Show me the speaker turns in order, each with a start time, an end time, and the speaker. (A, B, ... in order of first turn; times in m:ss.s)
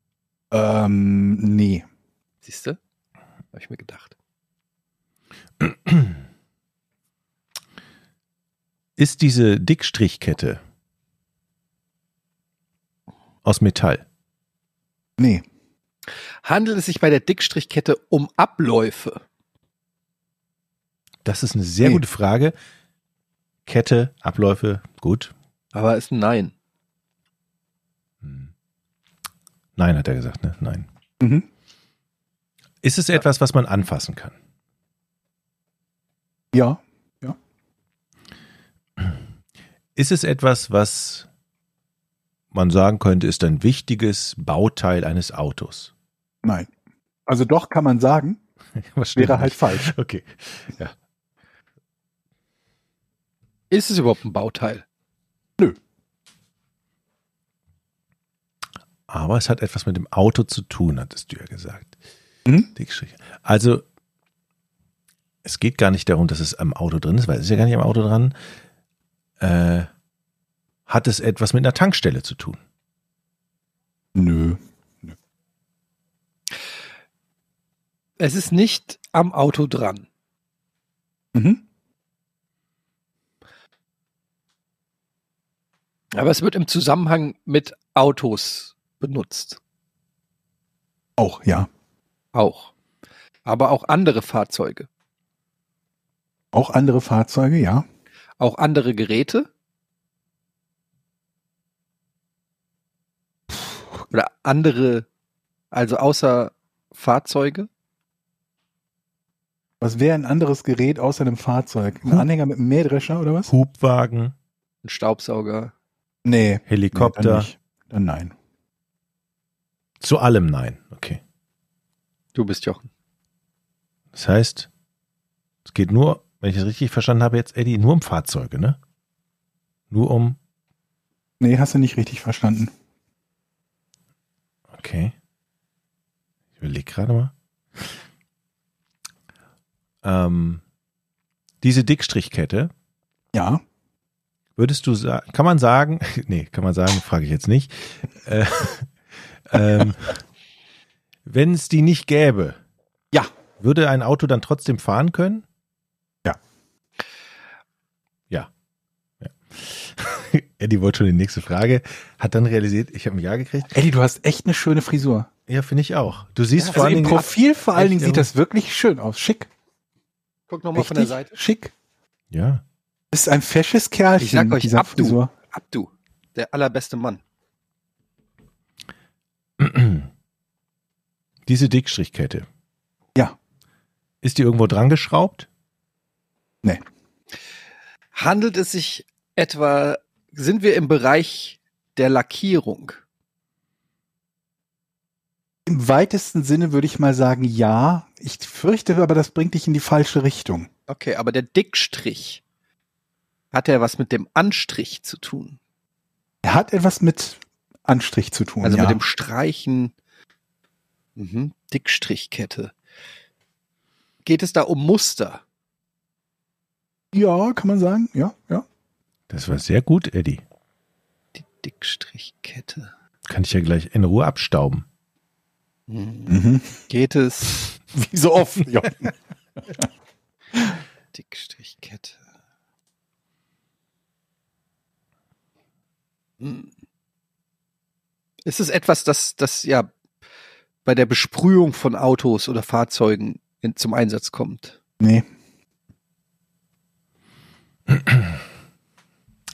0:00.5-0:01.8 A
0:02.4-0:02.8 B
0:03.5-0:04.2 B
0:05.6-0:06.2 C
0:09.0-0:10.6 C
0:13.4-0:14.0 C
0:15.2-0:15.4 A
0:16.4-0:19.2 B
0:21.2-0:22.5 C
0:23.7-0:25.3 C
0:25.7-0:26.5 B
0:28.2-0:28.5 C
0:29.8-0:30.9 C
0:31.2-0:31.5 A
0:32.8-0:34.3 C
0:36.5-0:37.4 A
0:40.0-0:41.3 C
0:42.5-0:45.9 C
0:46.4-0:46.7 A
0:47.3-0:48.4 A
0:48.8-0:50.9 C
0:49.2-0:49.9 A
0:53.7-0:54.8 B
0:59.1-1:01.9 C
1:02.8-1:03.8 C
1:05.4-1:08.4 C
1:09.4-1:09.9 C
1:10.9-1:12.6 C
1:14.2-1:15.1 A
1:18.2-1:20.1 B
1:21.3-1:21.6 A
1:26.1-1:29.6 B
1:31.2-1:31.7 A
1:32.3-1:32.7 B
1:33.4-1:34.9 B
1:36.5-1:37.8 A
1:38.4-1:39.5 B
1:44.1-1:45.1 B
1:45.7-1:47.7 B
1:49.8-1:53.5 A
1:53.5-1:54.3 C
1:54.8-1:55.7 B
1:56.2-1:58.3 A
1:56.7-1:57.5 C
2:00.0-2:01.2 C
2:02.4-2:02.9 B
2:04.2-2:04.7 C
2:05.7-2:08.8 C
2:09.9-2:10.4 C
2:11.4-2:12.7 A
2:14.7-2:15.1 C
2:16.6-2:17.9 C
2:20.0-2:20.6 C
2:21.6-2:22.7 C
2:23.3-2:23.6 A
2:24.6-2:28.9 C
2:29.5-2:30.2 C
2:31.3-2:32.6 C
2:33.6-2:35.4 C
2:39.2-2:43.8 C
2:43.7-2:45.3 A
2:45.5-2:48.3 C
2:46.6-2:47.3 B
2:46.7-2:49.5 A
2:50.5-2:51.3 B
2:50.8-2:51.7 A
2:52.3-2:52.6 C
2:53.1-2:55.3 A
2:54.2-2:57.2 B
2:59.6-3:00.1 C
3:01.5-3:02.5 C
3:04.2-3:05.5 C
3:08.1-3:13.0 B
3:15.7-3:20.7 A
3:20.9-3:22.4 B
3:23.5-3:25.6 B
3:26.4-3:29.0 A
3:28.6-3:29.9 B
3:31.2-3:32.7 B
3:34.2-3:35.4 B
3:37.1-3:38.6 A
3:39.3-3:40.4 C
3:41.4-3:42.9 B
3:43.3-3:44.8 C
3:45.9-3:47.7 B
3:46.3-3:46.8 A
3:47.9-3:49.1 A
3:51.1-3:52.2 B
3:56.4-3:56.7 B
3:58.4-3:59.9 B
4:00.8-4:04.8 B
4:05.0-4:05.3 A
4:07.9-4:08.4 C